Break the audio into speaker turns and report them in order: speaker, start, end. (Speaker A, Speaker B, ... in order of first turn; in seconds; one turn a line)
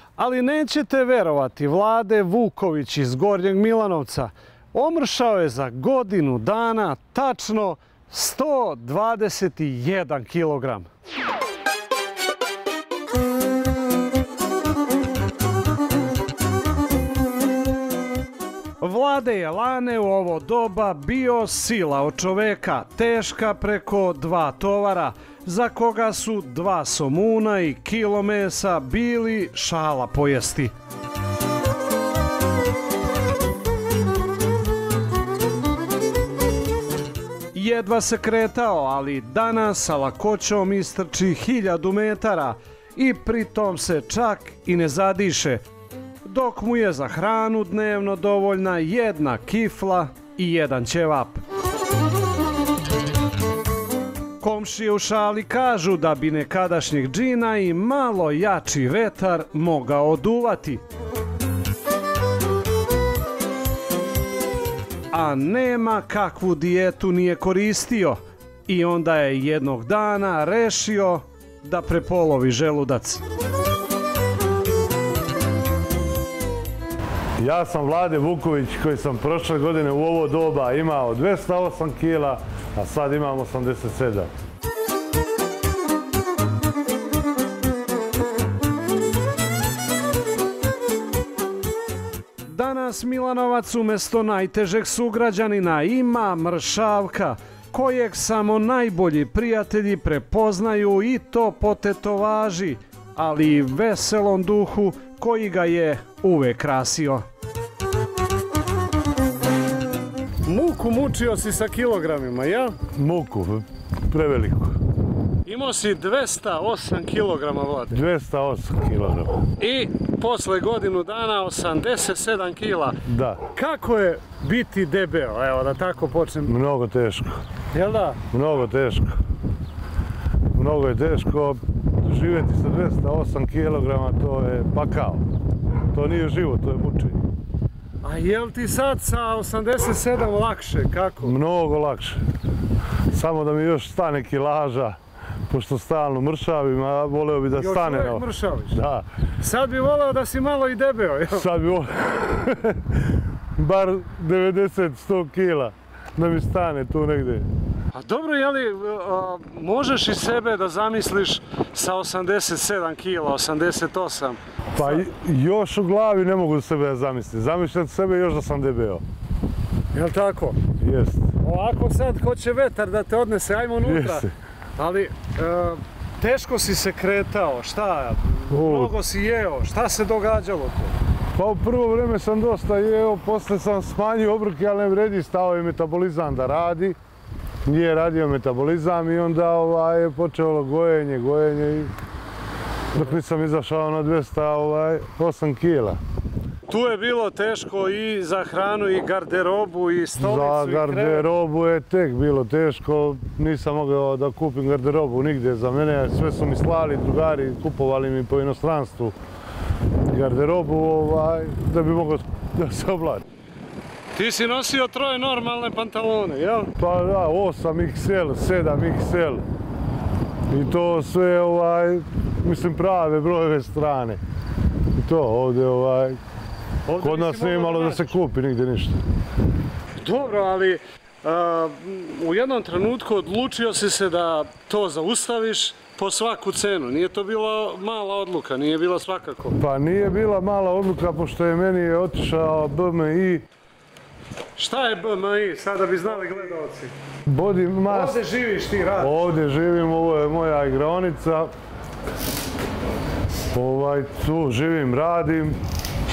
Speaker A: 0.2-10.9
Speaker A: 18.8-30.7
Speaker A: 37.5-45.6
Speaker A: 46.2-51.4
Speaker A: 54.4-60.8
Speaker A: 65.1-73.2
Speaker B: 77.4-84.3
Speaker A: 92.4-107.2
Speaker A: 110.4-112.8
Speaker B: 112.9-114.7
Speaker A: 115.4-118.0
Speaker B: 117.9-119.4
Speaker A: 119.6-123.0
Speaker B: 123.0-123.4
Speaker A: 123.5-126.5
Speaker B: 126.4-127.4
Speaker A: 127.7-128.2
Speaker B: 128.3-129.2
Speaker B: 130.5-135.2
Speaker B: 135.9-137.2
Speaker A: 138.0-141.3
Speaker B: 141.2-142.2
Speaker B: 143.1-145.0
Speaker B: 145.5-149.1
Speaker A: 147.6-148.8
Speaker A: 149.4-151.5
Speaker B: 151.3-157.5
Speaker A: 157.9-165.1
Speaker B: 164.7-169.0
Speaker A: 169.9-170.6
Speaker B: 170.8-171.3
Speaker A: 171.4-174.2
Speaker B: 173.8-174.3
Speaker A: 174.8-180.9
Speaker B: 178.5-178.9
Speaker B: 181.3-187.0
Speaker B: 187.7-191.9
Speaker B: 192.9-196.0
Speaker A: 196.7-201.2
Speaker B: 200.2-209.2
Speaker B: 210.1-213.2
Speaker A: 214.1-216.7
Speaker B: 216.8-219.4
Speaker B: 220.5-224.2
Speaker B: 224.9-226.2
Speaker A: 226.8-228.1
Speaker B: 227.0-229.0
Speaker A: 230.0-239.6
Speaker B: 239.6-243.4
Speaker A: 244.6-246.9
Speaker B: 247.2-248.2
Speaker A: 247.9-249.4
Speaker B: 249.0-251.5
Speaker B: 253.5-255.6